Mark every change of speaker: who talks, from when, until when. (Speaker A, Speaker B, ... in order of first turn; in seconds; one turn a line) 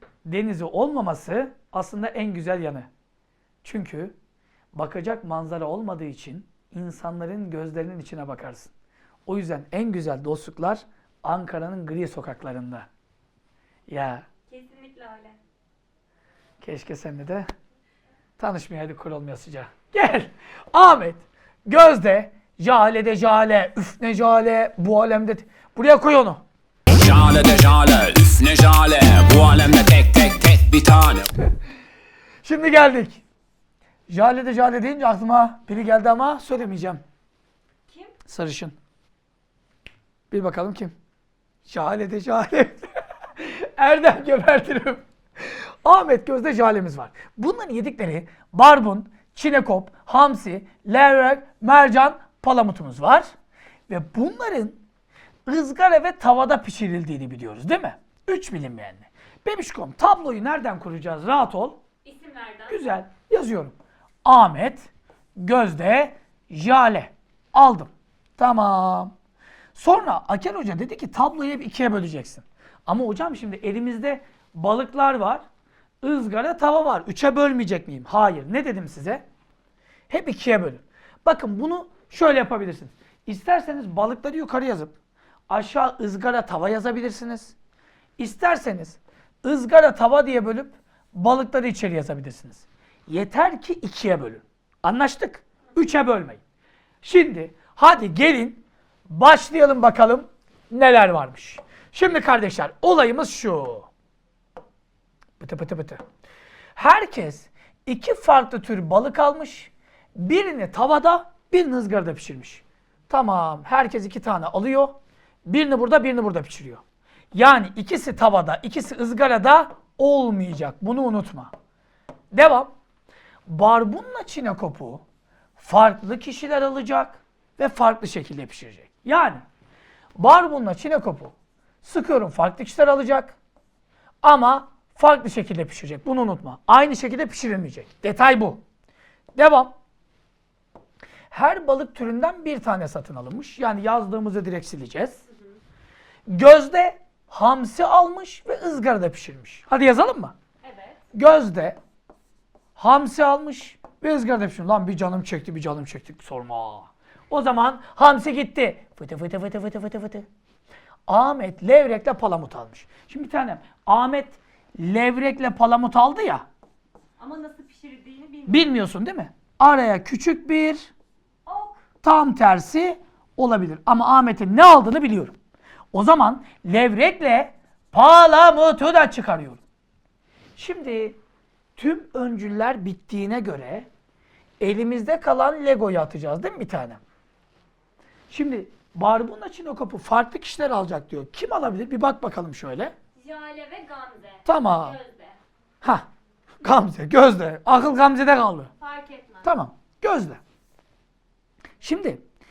Speaker A: 0.2-2.9
Speaker A: 3.6-4.2
Speaker A: 4.7-8.7
Speaker A: 9.3-12.9
Speaker A: 13.9-14.2
Speaker B: 14.5-15.4
Speaker A: 16.6-17.5
Speaker A: 18.4-26.4
Speaker C: 26.9-31.3
Speaker A: 32.4-33.2
Speaker A: 34.1-37.0
Speaker B: 37.9-38.2
Speaker A: 38.3-38.8
Speaker A: 40.3-41.0
Speaker A: 41.6-53.3
Speaker A: 53.9-54.8
Speaker A: 55.5-61.8
Speaker B: 62.0-62.9
Speaker A: 62.7-69.1
Speaker A: 69.8-75.5
Speaker A: 76.0-79.2
Speaker A: 80.1-84.9
Speaker A: 85.5-87.6
Speaker A: 88.2-96.4
Speaker A: 97.0-103.9
Speaker A: 105.4-106.0
Speaker A: 106.8-116.8
Speaker A: 117.3-121.5
Speaker A: 122.3-122.7
Speaker A: 123.5-125.0
Speaker A: 125.6-129.4
Speaker A: 130.2-133.4
Speaker A: 134.2-138.6
Speaker A: 139.4-139.7
Speaker A: 141.3-145.2
Speaker B: 145.3-145.6
Speaker A: 146.3-150.3
Speaker B: 150.6-151.1
Speaker A: 151.1-151.8
Speaker A: 152.8-160.3
Speaker A: 161.1-166.4
Speaker B: 167.2-168.8
Speaker A: 168.5-170.9
Speaker B: 171.5-171.8
Speaker A: 172.0-175.3
Speaker A: 175.9-179.6
Speaker A: 180.6-181.2
Speaker A: 181.8-183.9
Speaker A: 184.6-187.0
Speaker A: 188.3-192.9
Speaker B: 193.2-195.4
Speaker A: 194.5-195.0
Speaker A: 196.6-198.7
Speaker B: 198.8-199.5
Speaker A: 199.4-200.4
Speaker A: 201.8-202.2